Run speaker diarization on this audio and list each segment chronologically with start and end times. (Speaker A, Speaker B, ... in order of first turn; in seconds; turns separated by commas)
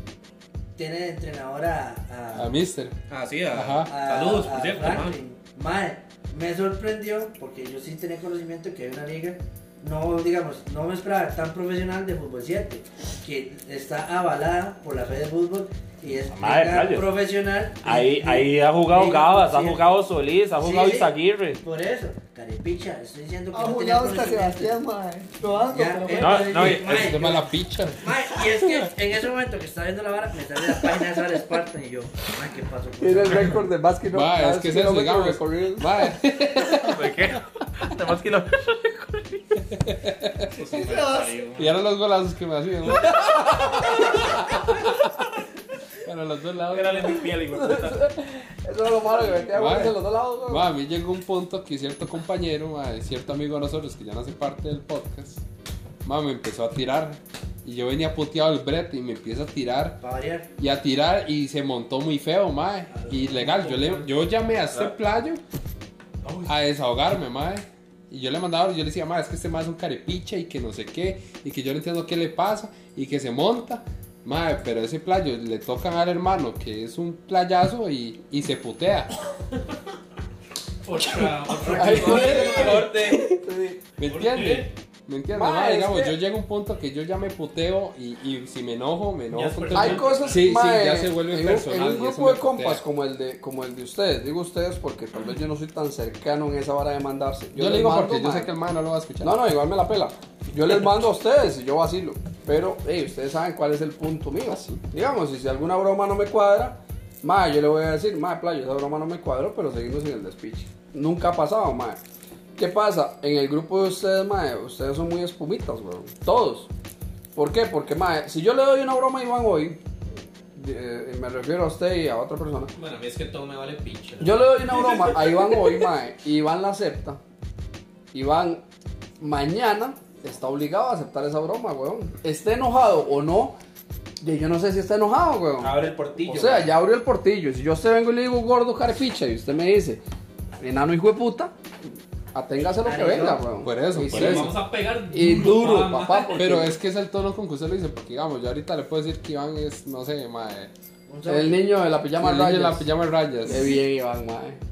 Speaker A: 0.8-2.6, Speaker B: 2.3-3.9, Speaker C: 3.1-5.2, Speaker A: 3.8-20.0, Speaker D: 16.3-17.1, Speaker D: 17.8-21.6, Speaker A: 20.6-24.8, Speaker E: 23.5-26.5, Speaker A: 25.6-33.6, Speaker D: 26.2-27.2, Speaker B: 26.5-28.1, Speaker F: 33.0-36.1, Speaker B: 34.1-37.2, Speaker D: 36.7-39.4, Speaker B: 39.8-40.5, Speaker C: 40.5-41.8, Speaker E: 40.7-41.4, Speaker B: 41.6-44.9, Speaker B: 46.0-47.3, Speaker D: 46.7-48.1, Speaker F: 47.5-50.7, Speaker B: 49.5-55.4, Speaker B: 56.0-60.0, Speaker A: 60.0-60.5, Speaker B: 60.6-65.4, Speaker A: 62.9-64.0, Speaker B: 66.5-79.1, Speaker C: 80.8-82.9, Speaker F: 81.5-83.8, Speaker B: 81.7-82.7, Speaker D: 81.8-83.3, Speaker A: 82.0-82.5, Speaker B: 84.0-92.8, Speaker C: 84.1-84.7, Speaker F: 85.3-86.2, Speaker C: 89.3-90.6, Speaker F: 89.7-98.5, Speaker C: 91.7-92.0, Speaker B: 97.6-99.4, Speaker F: 99.2-112.0, Speaker F: 112.6-116.7, Speaker F: 117.3-119.8, Speaker F: 120.5-122.7, Speaker C: 122.8-125.7, Speaker F: 124.2-127.2, Speaker F: 128.1-128.6, Speaker F: 129.2-133.6, Speaker F: 134.2-140.0, Speaker D: 135.6-136.8, Speaker F: 140.6-141.5, Speaker F: 142.3-144.6, Speaker A: 142.8-143.5, Speaker B: 143.6-144.6, Speaker C: 144.0-146.5, Speaker F: 145.1-146.8, Speaker B: 146.3-150.7, Speaker A: 151.1-151.7, Speaker F: 151.3-152.9, Speaker B: 152.2-153.8, Speaker F: 153.4-154.6